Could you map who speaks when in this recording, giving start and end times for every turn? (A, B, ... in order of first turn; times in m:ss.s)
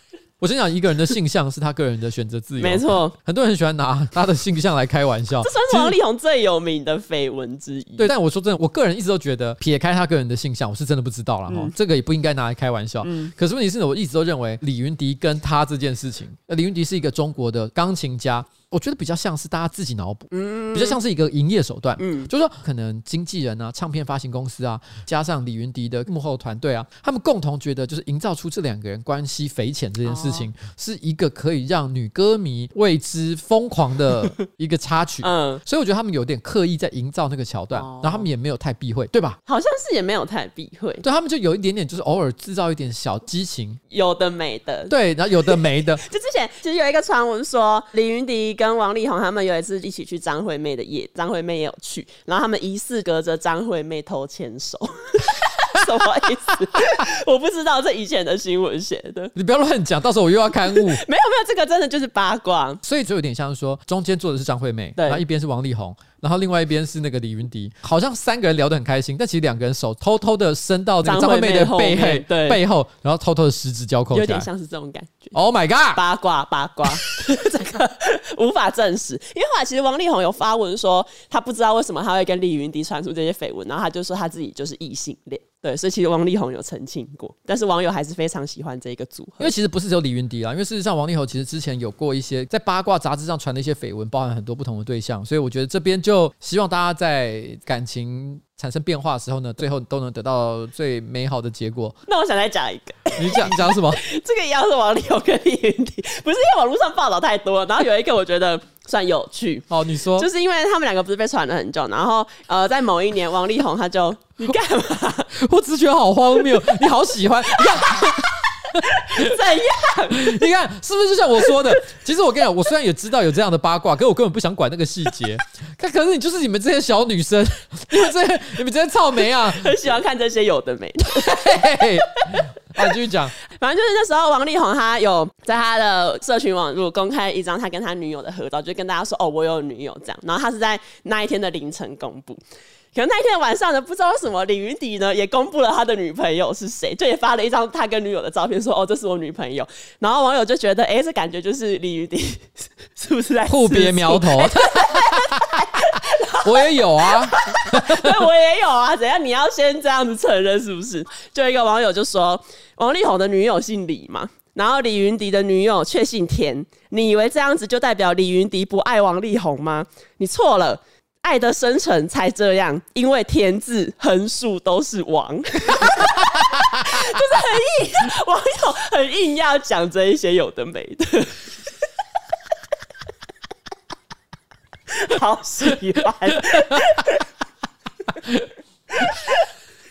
0:00.4-0:05.9 A
0:02.6-0:03.1 B
0:05.4-0:08.1 B
0:08.0-0:39.4 A
0:11.5-0:11.7 B
0:13.0-0:13.3 B
0:20.3-0:21.0 B
0:22.0-0:22.3 B
0:30.0-0:30.5 B
0:35.2-0:35.6 B
0:37.7-0:38.3 B
0:39.4-0:41.0 B
0:41.0-0:43.8 A
0:43.9-0:59.3 B
0:44.9-0:46.0 A
0:59.3-1:01.0 A
1:00.7-1:02.8 B
1:02.8-1:14.5 A
1:05.0-1:05.2 B
1:11.0-1:12.6 B
1:14.1-1:15.3 B
1:15.3-1:16.0 A
1:15.9-1:29.5 B
1:29.4-1:42.0 A
1:42.0-1:55.3 B
1:43.2-1:44.0 A
1:49.7-1:50.3 A
1:55.3-1:59.4 A
1:58.8-2:00.4 B
2:00.1-2:09.8 A
2:01.4-2:01.8 B
2:09.3-2:22.4 B
2:11.1-2:13.3 A
2:22.9-3:01.5 B
2:33.5-2:35.8 A
2:36.4-2:38.2 A
3:04.9-3:07.2 B
3:06.4-3:07.0 A
3:08.1-3:08.5 A
3:08.9-3:09.5 B